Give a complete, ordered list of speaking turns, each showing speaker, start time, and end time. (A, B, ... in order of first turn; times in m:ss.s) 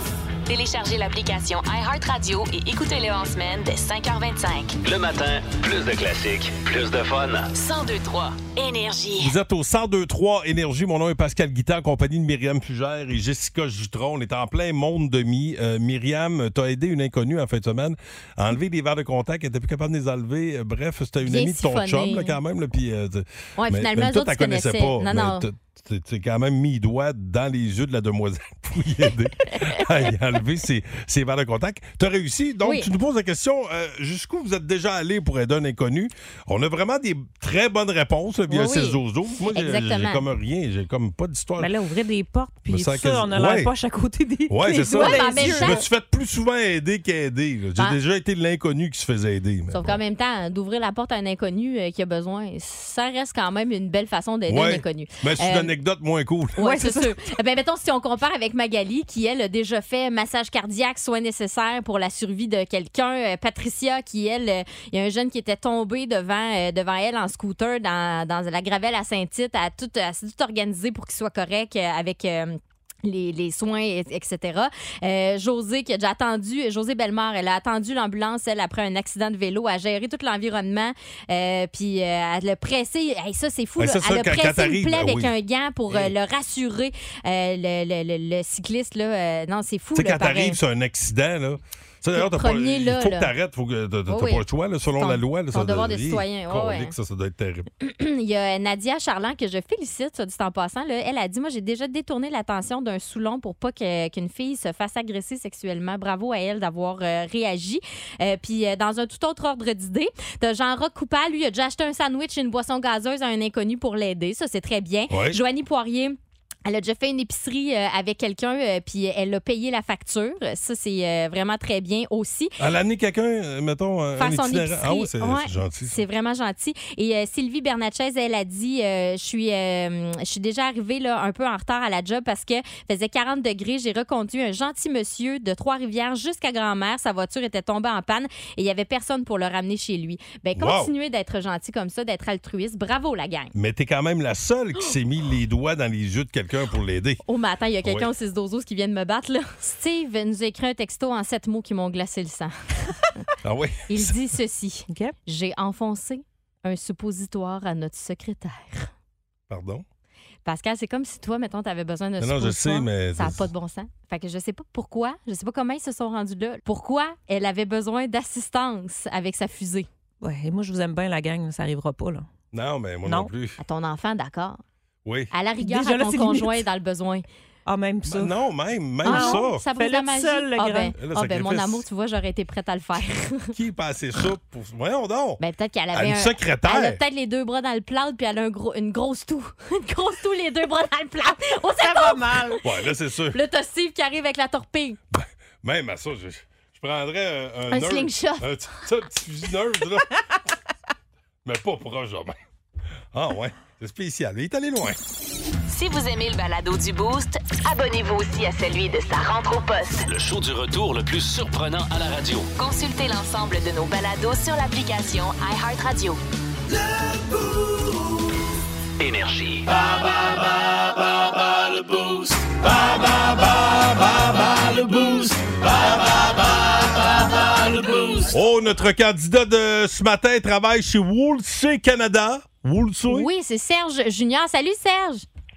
0:00.5-0:04.8 A
0:04.8-0:07.5 B
0:07.5-0:09.3 A
0:09.2-0:41.8 C
0:21.2-0:22.4 D
0:23.6-0:25.5 D
0:32.6-0:32.9 D
0:38.5-0:39.0 D
0:39.5-0:40.2 D
0:41.6-0:45.8 E
0:42.7-0:43.7 C
0:44.5-0:50.0 C
0:44.9-0:45.8 D
0:49.7-0:55.7 D
0:54.5-0:56.7 C
0:56.6-1:30.6 D
0:56.6-0:57.0 E
1:23.8-1:25.3 C
1:30.0-1:37.7 C
1:32.1-1:33.3 D
1:34.1-1:34.4 D
1:35.0-1:36.9 D
1:37.8-2:02.6 D
1:55.1-1:55.4 C
2:02.6-2:06.0 C
2:04.2-2:23.5 D
2:20.6-2:20.9 C
2:23.6-2:27.2 C
2:27.2-2:32.5 D
2:27.8-2:28.1 C
2:33.4-2:34.2 C
2:33.9-2:38.9 D
2:39.5-2:39.8 C
2:40.4-2:49.9 D
2:42.2-2:43.5 C
2:50.2-2:52.3 E
2:52.5-2:53.6 C
2:53.0-2:53.3 E
2:53.6-2:54.6 D
2:55.0-2:55.3 C
2:55.3-2:57.2 D
2:55.6-2:56.6 E
2:57.7-2:58.3 E
2:58.0-2:59.6 C
2:59.0-3:01.0 E
2:59.0-3:03.5 D
3:01.0-3:01.8 C
3:03.5-3:05.4 C
3:05.4-3:12.6 D
3:05.9-3:07.0 C
3:11.8-3:12.6 E
3:12.6-3:13.4 C
3:13.3-3:15.0 D
3:15.1-3:20.2 C
3:17.7-3:18.5 D
3:21.4-3:22.4 C
3:23.1-3:25.0 C
3:25.7-3:30.1 A
3:30.0-3:32.5 B
3:32.6-3:36.2 A
3:39.0-3:39.8 B
3:41.5-3:46.2 B
3:47.6-3:48.3 B
3:48.3-3:53.3 C
3:53.1-3:55.3 D